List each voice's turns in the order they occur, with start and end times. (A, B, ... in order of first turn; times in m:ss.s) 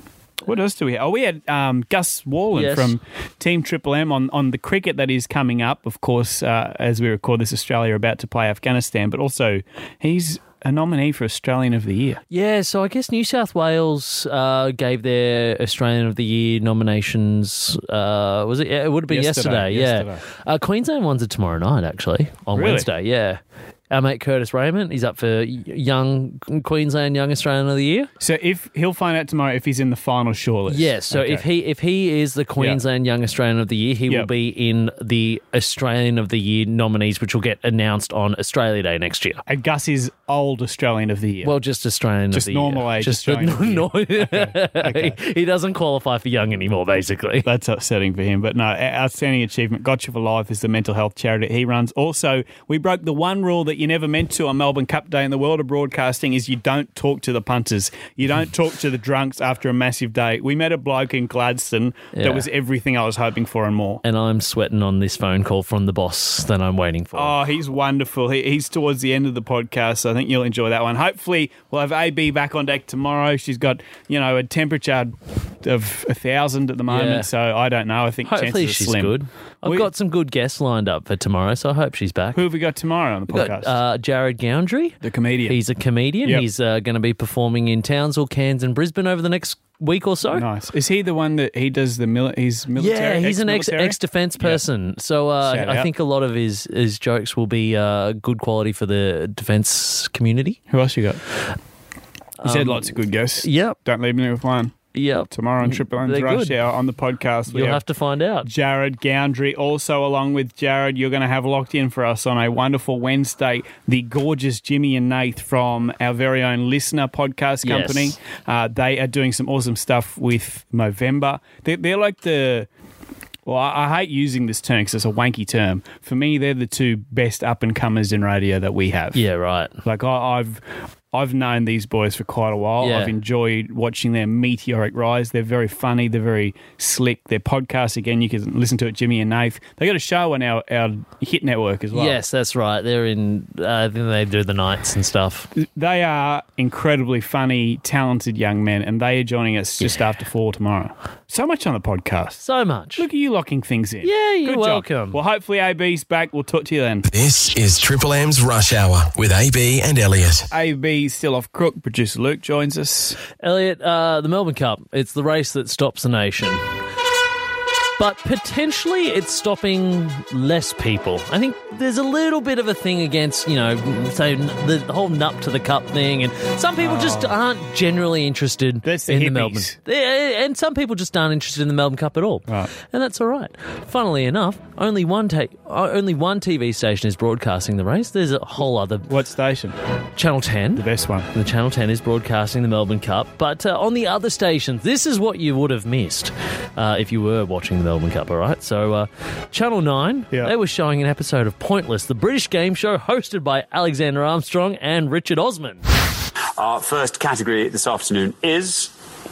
0:00.5-0:12.2 A
0:02.5-0:03.0 B
0:12.3-0:28.1 B
0:19.1-0:20.2 A
0:22.5-0:22.9 A
0:28.2-0:31.4 A
0:30.7-0:39.4 B
0:39.4-0:41.5 A
0:41.4-0:47.5 B
0:42.3-0:45.2 A
0:47.4-1:04.0 A
1:02.1-1:02.5 B
1:04.0-1:07.4 B
1:07.1-1:19.9 A
1:16.9-1:17.3 B
1:18.2-1:22.4 B
1:22.3-1:23.8 A
1:23.3-1:30.4 B
1:25.0-1:25.6 A
1:30.3-1:34.6 A
1:32.8-1:40.6 B
1:35.4-1:35.9 A
1:40.7-1:41.2 A
1:42.4-1:43.8 B
1:42.4-1:47.8 A
1:44.9-1:46.6 B
1:47.5-1:48.5 B
1:48.4-2:02.7 A
1:57.6-1:58.1 B
2:03.4-2:09.2 A
2:09.1-2:09.7 B
2:09.8-2:10.6 A
2:11.1-2:22.2 A
2:12.8-2:13.1 B
2:21.9-2:25.5 B
2:25.6-2:32.4 A
2:32.4-2:33.0 B
2:33.0-2:37.1 A
2:34.0-2:35.2 B
2:37.1-2:40.5 C
2:40.5-2:43.2 A
2:43.4-2:46.6 B
2:48.0-3:09.1 B
2:56.8-2:57.3 A
2:58.8-2:59.8 A
3:09.0-3:09.8 A
3:10.2-3:25.8 B
3:10.8-3:11.3 A
3:26.6-3:28.9 D